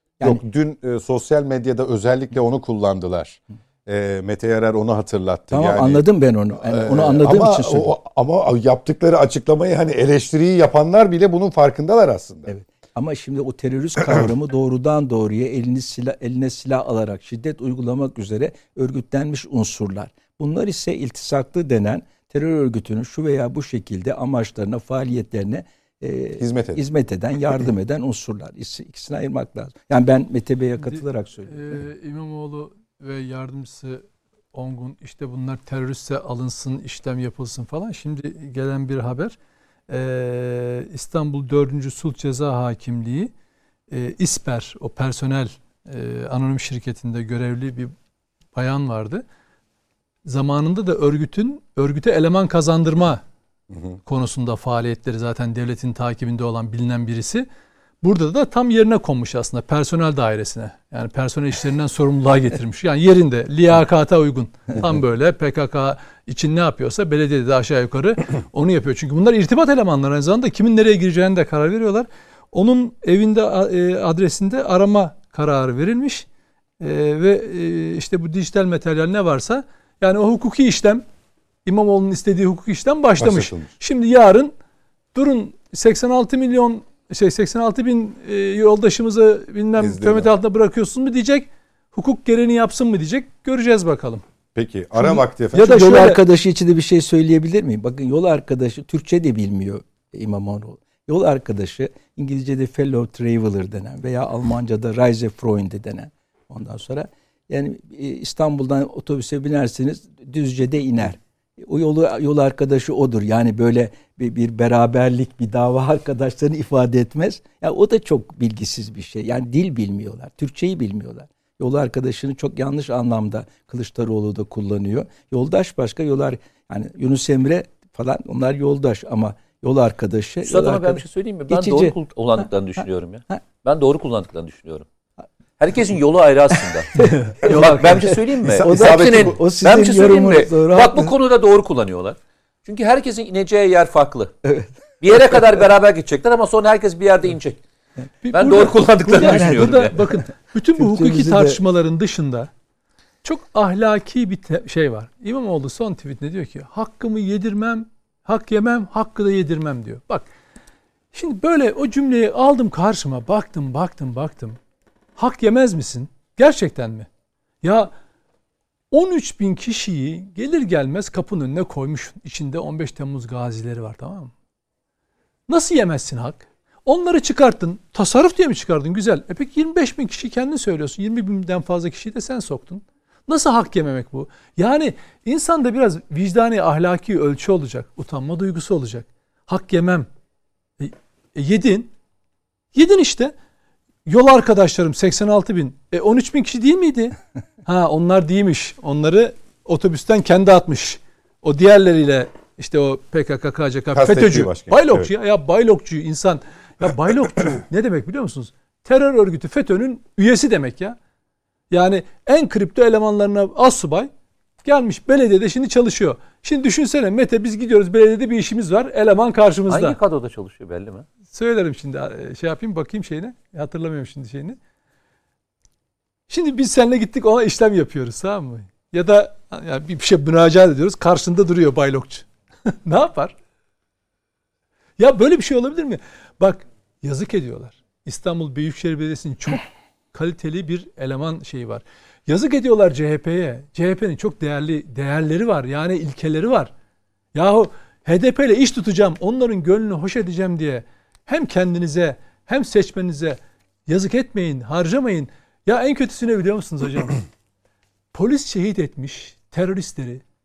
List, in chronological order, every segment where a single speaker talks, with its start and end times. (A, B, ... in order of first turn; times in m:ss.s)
0:00.2-0:06.0 A
0:05.5-0:07.9 B
0:06.7-0:12.5 A
0:12.5-0:31.8 B
0:26.4-0:26.8 A
0:30.9-0:39.3 C
0:39.9-0:43.3 C
0:43.9-0:47.9 C
0:48.5-0:49.2 C
0:50.2-0:53.2 C
0:54.0-0:57.4 C
0:58.0-1:16.3 C
1:16.8-1:21.0 C
1:21.6-1:24.5 C
1:23.2-1:23.7 A
1:25.1-1:34.2 C
1:29.8-1:30.3 A
1:34.5-1:35.9 A
1:35.0-2:12.4 B
1:35.5-1:36.2 C
2:10.4-2:14.9 D
2:15.6-2:24.4 D
2:16.9-2:21.1 B
2:18.4-2:19.4 A
2:24.4-2:24.7 B
2:25.0-2:27.6 D
2:28.2-2:32.5 C
2:28.3-2:30.0 D
2:29.2-2:30.2 B
2:30.8-2:31.6 B
2:33.2-2:40.2 C
2:41.1-2:44.6 C
2:45.2-2:47.1 C
2:47.6-2:47.9 C
2:48.9-2:54.3 C
2:55.5-3:10.1 C
3:10.8-3:11.9 C
3:12.7-3:13.3 C
3:14.0-3:31.0 C
3:23.9-3:25.1 A
3:31.7-3:34.1 C
3:34.6-3:40.0 C
3:39.7-3:41.1 D
3:41.3-3:44.6 C
3:46.3-3:53.3 C
3:55.0-4:06.7 C
4:07.3-4:17.2 C
4:18.1-4:20.2 C